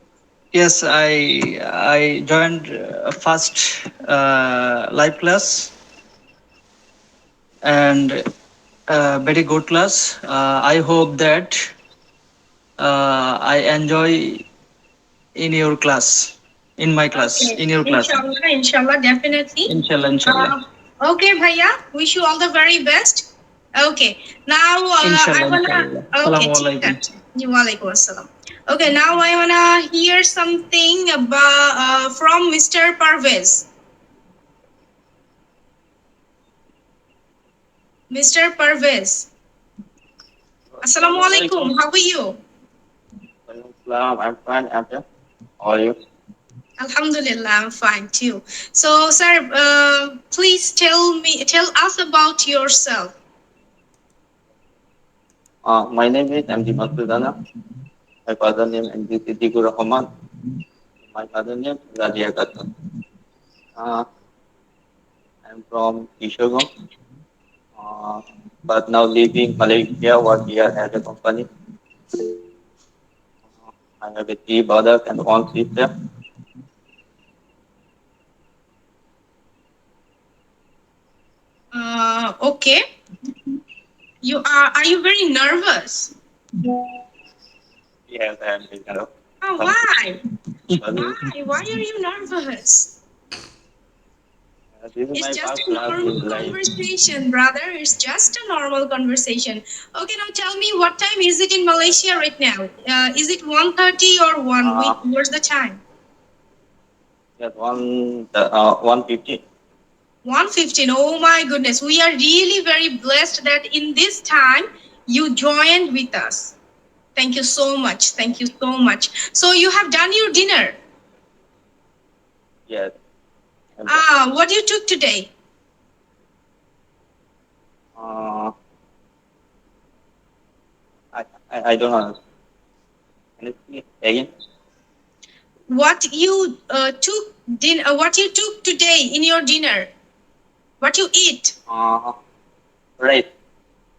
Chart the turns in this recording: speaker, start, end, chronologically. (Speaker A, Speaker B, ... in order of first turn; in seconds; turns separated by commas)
Speaker A: 0.5-5.7, Speaker A: 7.6-8.2, Speaker A: 8.9-11.7, Speaker A: 12.8-14.4, Speaker A: 15.4-18.2, Speaker B: 17.1-19.7, Speaker A: 19.7-20.5, Speaker B: 20.2-23.2, Speaker B: 23.8-33.6, Speaker A: 25.0-27.0, Speaker B: 38.1-39.3, Speaker C: 40.7-41.7, Speaker B: 40.8-42.3, Speaker C: 43.5-45.0, Speaker C: 45.6-45.9, Speaker B: 46.8-53.1, Speaker C: 55.6-57.3, Speaker C: 58.3-60.1, Speaker C: 61.1-62.6, Speaker C: 63.8-64.0, Speaker C: 65.5-66.7, Speaker C: 67.8-71.4, Speaker C: 74.0-75.9, Speaker B: 81.7-82.8, Speaker B: 84.2-86.1, Speaker C: 88.1-89.8, Speaker B: 89.4-90.2, Speaker C: 90.8-91.2, Speaker B: 90.9-92.9, Speaker C: 94.8-96.6, Speaker B: 95.1-105.8, Speaker C: 104.6-104.9, Speaker C: 107.4-109.4, Speaker B: 110.2-116.5, Speaker B: 117.2-120.7, Speaker B: 123.9-125.3, Speaker C: 128.0-128.5, Speaker C: 131.1-132.2, Speaker C: 133.4-134.3, Speaker B: 135.7-139.9, Speaker B: 140.8-141.5, Speaker C: 141.7-142.1, Speaker C: 143.0-143.3